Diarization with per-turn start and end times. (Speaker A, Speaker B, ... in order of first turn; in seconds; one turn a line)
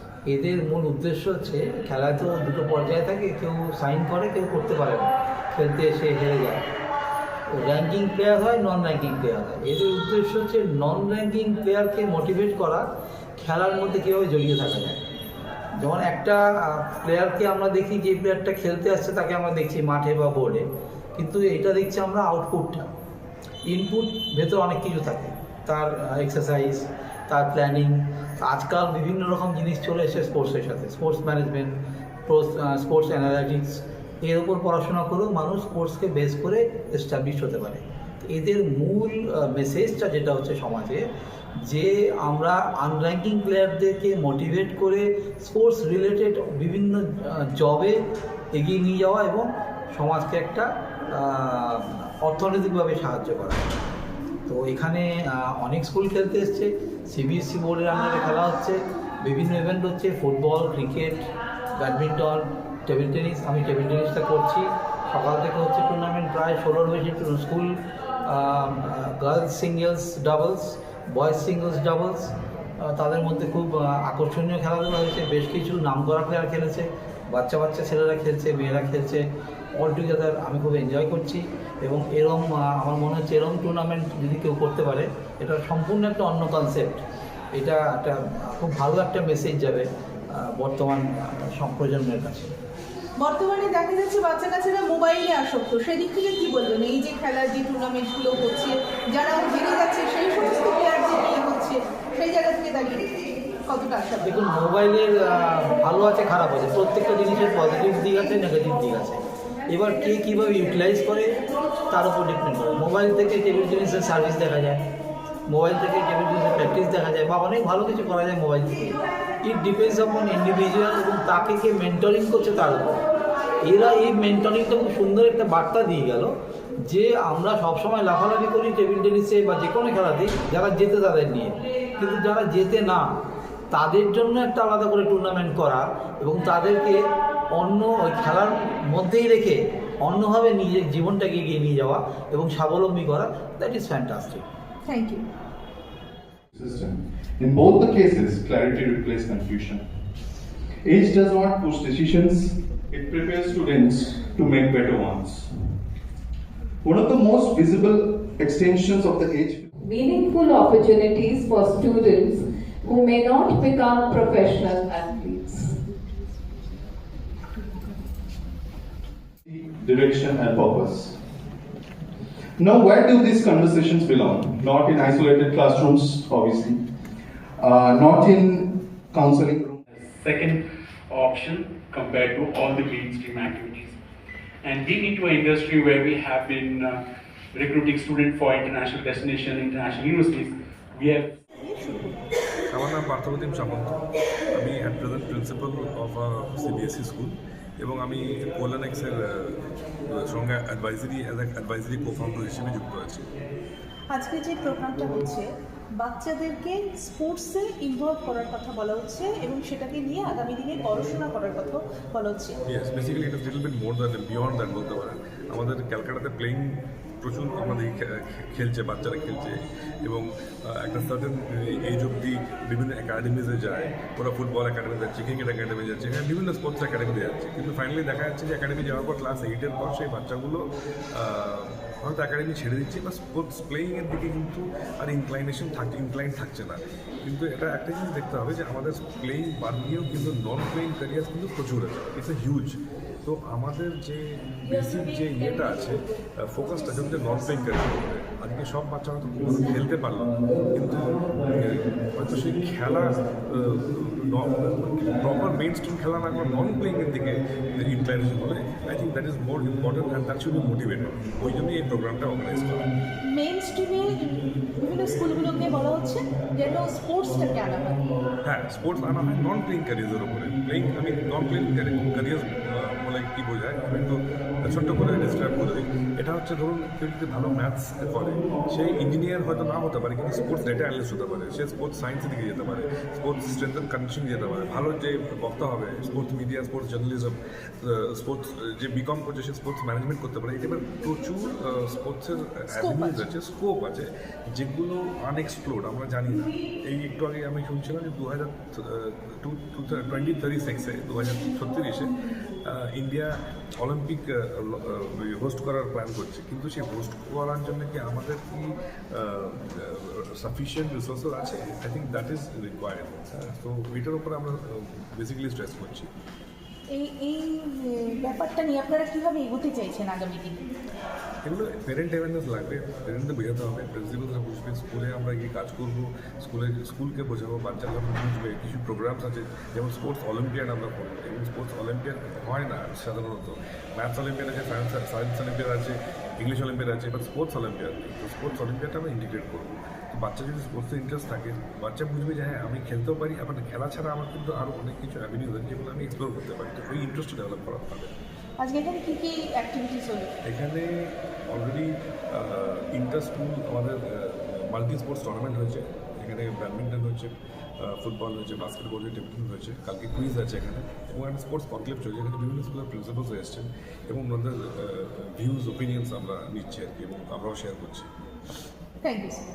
Speaker A: 0.3-6.6
Speaker A: 7.6-12.8
Speaker A: 13.4-15.0
Speaker A: 15.8-20.6
Speaker A: 21.2-22.9
Speaker A: 23.7-26.8
Speaker A: 27.3-31.7
Speaker A: 32.3-41.0
Speaker A: 41.7-47.0
Speaker A: 47.6-47.9
Speaker A: 48.5-50.6
Speaker A: 51.2-53.7
Speaker A: 54.5-55.1
Speaker A: 55.6-61.2
Speaker A: 61.8-67.7
Speaker A: 68.3-72.3
Speaker A: 72.8-79.2
Speaker A: 79.8-87.0
Speaker A: 87.6-89.8
Speaker A: 90.4-91.0
Speaker A: 91.5-92.5
Speaker B: 93.2-103.2
Speaker B: 103.7-104.4
Speaker A: 104.2-109.2
Speaker A: 109.7-111.3
Speaker A: 111.9-114.8
Speaker A: 115.5-123.0
Speaker A: 123.7-126.3
Speaker A: 126.9-133.0
Speaker A: 133.7-136.9
Speaker A: 137.6-144.4
Speaker B: 144.9-145.2
Speaker C: 146.6-149.9
Speaker C: 150.8-155.8
Speaker C: 156.8-159.7
Speaker D: 159.8-165.8
Speaker C: 169.5-171.2
Speaker C: 172.6-176.8
Speaker C: 177.6-179.8
Speaker E: 179.9-184.0
Speaker E: 184.6-187.0
Speaker E: 187.6-191.3
Speaker B: 191.6-192.2
Speaker F: 192.7-194.0
Speaker F: 194.5-199.6
Speaker F: 200.1-203.3
Speaker B: 204.1-205.4
Speaker B: 206.0-212.6
Speaker F: 212.7-262.9
Speaker B: 263.2-268.2
Speaker F: 268.4-316.1
Speaker B: 316.9-320.6
Speaker F: 321.4-348.1
Speaker B: 348.6-350.3
Speaker F: 350.4-368.1
Speaker B: 369.0-369.4